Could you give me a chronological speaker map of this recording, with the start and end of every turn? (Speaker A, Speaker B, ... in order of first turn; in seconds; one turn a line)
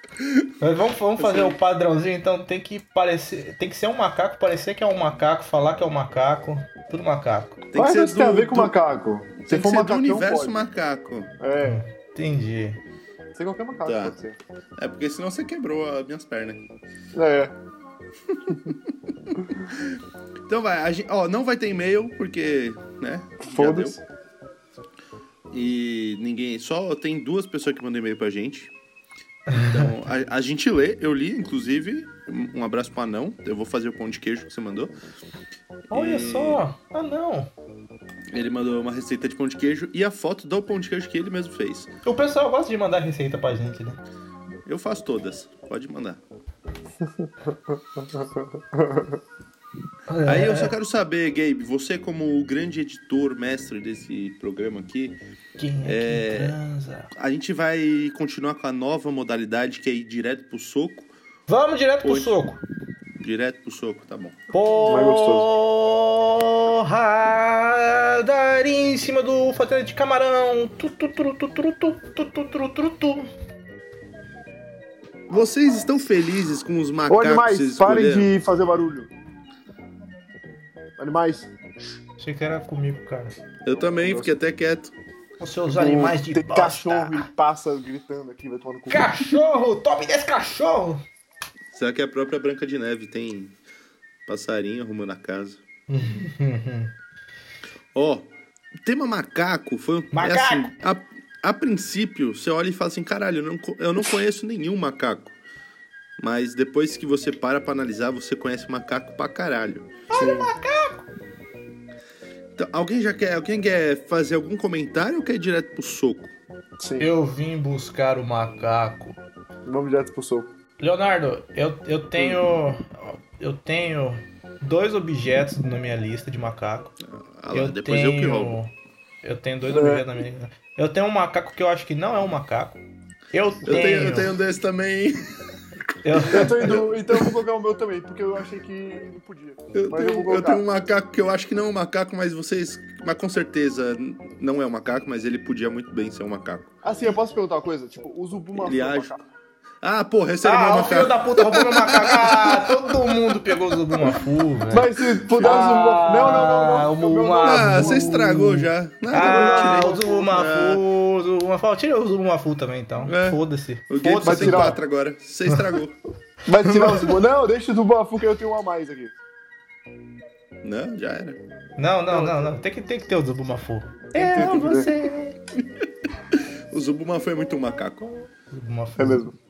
Speaker A: 0.2-0.5
Speaker B: 0.6-7.6
Speaker A: 1.2-1.6
Speaker A: 7.7-8.8
Speaker C: 7.8-10.6
Speaker A: 9.5-11.3
Speaker C: 11.4-11.8
Speaker B: 11.6-12.8
Speaker C: 13.3-14.4
Speaker A: 13.9-14.2
Speaker A: 14.8-16.6
Speaker C: 17.1-17.5
Speaker A: 20.5-24.0
Speaker C: 23.4-24.0
Speaker A: 25.5-28.7
Speaker B: 29.5-29.9
Speaker A: 29.5-34.9
Speaker A: 35.9-36.6
Speaker B: 35.9-37.5
Speaker A: 38.3-41.9
Speaker B: 42.0-44.0
Speaker A: 44.7-46.2
Speaker C: 47.1-49.2
Speaker B: 50.1-50.7
Speaker A: 50.2-55.2
Speaker B: 55.6-57.1
Speaker A: 55.9-56.5
Speaker A: 57.1-61.1
Speaker B: 61.5-62.6
Speaker A: 62.0-62.3
Speaker A: 63.2-64.4
Speaker B: 64.5-73.3
Speaker C: 64.8-65.5
Speaker A: 75.3-78.3
Speaker C: 77.1-79.1
Speaker C: 81.0-81.5
Speaker B: 82.2-83.3
Speaker A: 83.6-84.9
Speaker C: 84.0-84.4
Speaker B: 85.4-87.3
Speaker C: 85.8-89.4
Speaker B: 88.9-91.0
Speaker A: 91.7-93.6
Speaker A: 94.3-95.6
Speaker B: 95.9-96.9
Speaker A: 97.9-98.3
Speaker A: 98.8-105.3
Speaker B: 100.1-100.7
Speaker A: 106.2-109.9
Speaker B: 110.1-111.0
Speaker C: 110.1-110.5
Speaker A: 112.6-116.3
Speaker C: 116.8-117.1
Speaker B: 117.0-119.2
Speaker C: 119.7-120.5
Speaker B: 120.8-127.0
Speaker A: 127.0-128.6
Speaker B: 127.5-128.7
Speaker B: 129.2-132.8
Speaker C: 129.7-130.1
Speaker B: 133.3-134.3
Speaker A: 133.7-135.3
Speaker B: 136.0-136.8
Speaker A: 136.2-136.8
Speaker C: 136.3-140.6
Speaker A: 139.7-146.7
Speaker C: 146.8-149.2
Speaker A: 148.6-149.2
Speaker A: 149.8-153.4
Speaker B: 150.4-164.8
Speaker C: 154.7-158.6
Speaker A: 157.4-160.8
Speaker C: 159.1-160.3
Speaker A: 163.1-166.0
Speaker C: 164.2-164.8
Speaker C: 166.4-169.1
Speaker B: 166.7-167.1
Speaker A: 170.6-171.4
Speaker B: 171.8-175.4
Speaker C: 172.1-172.5
Speaker C: 174.2-174.9
Speaker A: 175.6-178.0
Speaker B: 178.0-179.3
Speaker C: 179.0-179.3